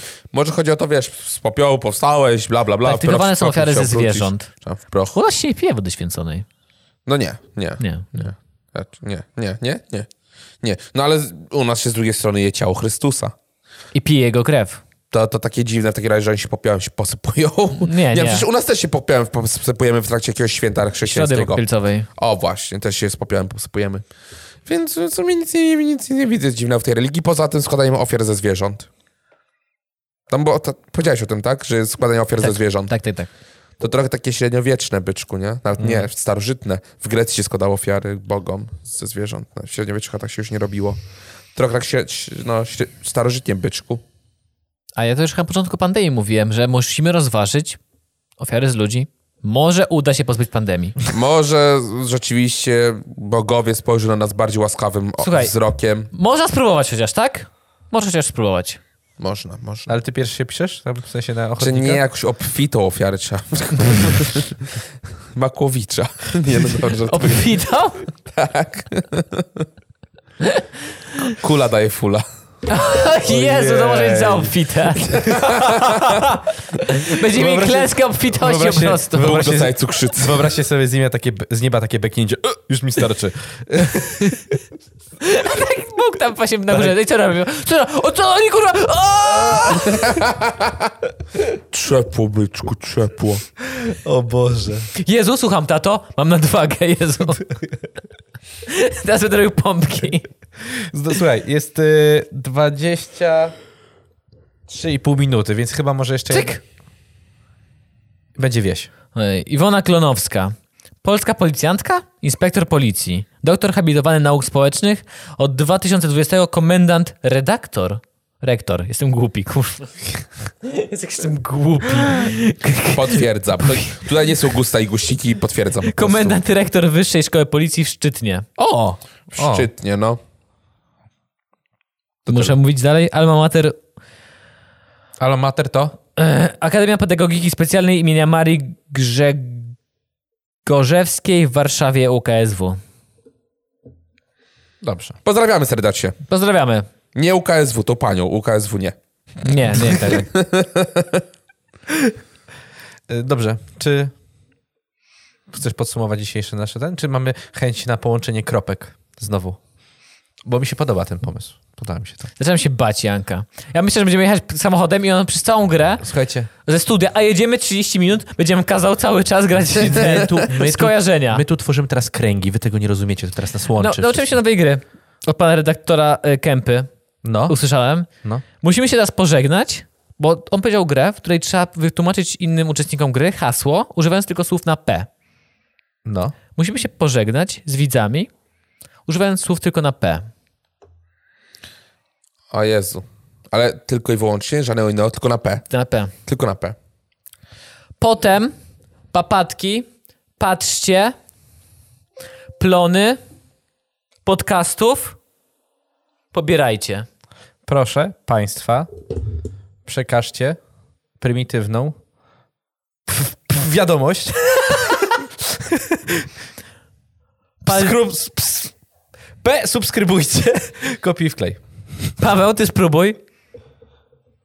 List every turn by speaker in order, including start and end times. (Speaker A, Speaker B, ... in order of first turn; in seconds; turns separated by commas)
Speaker A: 0.3-5.1, Speaker B: 2.8-4.5, Speaker B: 5.1-6.5, Speaker A: 7.1-10.1, Speaker B: 7.8-8.3, Speaker A: 10.6-13.3, Speaker B: 13.9-14.8, Speaker A: 15.1-21.6, Speaker B: 17.8-18.5, Speaker B: 21.0-22.1, Speaker A: 22.2-24.0, Speaker A: 24.6-28.9, Speaker A: 30.3-32.9, Speaker B: 32.4-33.3, Speaker A: 33.8-41.0, Speaker C: 35.8-36.1, Speaker A: 41.5-44.0, Speaker B: 45.0-47.8, Speaker B: 48.4-51.0, Speaker A: 51.1-56.1, Speaker B: 55.2-55.5, Speaker B: 56.1-58.8, Speaker A: 59.2-59.9, Speaker C: 59.9-62.0, Speaker A: 61.6-64.7, Speaker A: 65.3-67.5, Speaker B: 67.0-68.0, Speaker A: 68.3-69.6, Speaker A: 71.2-72.2, Speaker B: 72.7-75.1, Speaker C: 73.2-74.5, Speaker A: 75.1-76.2, Speaker C: 75.1-76.5, Speaker B: 76.8-79.5, Speaker C: 77.1-84.4, Speaker A: 79.2-80.5, Speaker B: 85.2-90.2, Speaker A: 90.0-90.9, Speaker A: 91.5-93.4, Speaker C: 93.6-94.9, Speaker B: 94.9-97.5, Speaker B: 98.7-100.3, Speaker C: 100.6-103.5, Speaker C: 104.7-106.6, Speaker B: 106.3-106.6, Speaker C: 108.4-108.9, Speaker B: 109.1-123.9, Speaker A: 122.9-126.4, Speaker B: 125.9-128.5, Speaker C: 128.6-129.7, Speaker A: 129.3-130.2, Speaker C: 132.3-132.6, Speaker B: 132.3-133.8, Speaker C: 135.2-135.9, Speaker B: 136.2-139.8, Speaker B: 140.6-142.8, Speaker C: 144.8-145.2, Speaker A: 145.2-146.2, Speaker B: 146.3-146.9, Speaker A: 147.1-148.9, Speaker B: 149.4-150.3, Speaker A: 149.8-151.2, Speaker C: 153.1-154.1, Speaker C: 155.5-159.6, Speaker C: 160.4-162.3, Speaker B: 162.4-166.0, Speaker C: 166.0-166.5, Speaker B: 166.7-171.4, Speaker C: 169.7-174.3, Speaker B: 173.8-176.9, Speaker C: 177.2-177.6, Speaker B: 177.5-178.1, Speaker B: 178.6-185.1, Speaker C: 186.0-186.3, Speaker B: 186.6-188.3, Speaker B: 189.1-190.3, Speaker A: 192.5-195.6, Speaker B: 195.7-196.1, Speaker A: 196.2-196.8, Speaker B: 198.0-198.5, Speaker B: 199.1-201.2, Speaker B: 202.6-203.2, Speaker B: 204.2-205.2, Speaker B: 206.3-207.1, Speaker C: 207.7-208.9, Speaker C: 209.8-210.6, Speaker C: 211.2-211.9, Speaker C: 213.1-216.3, Speaker C: 217.6-218.7, Speaker B: 217.6-217.9, Speaker C: 219.4-221.6, Speaker B: 222.2-223.2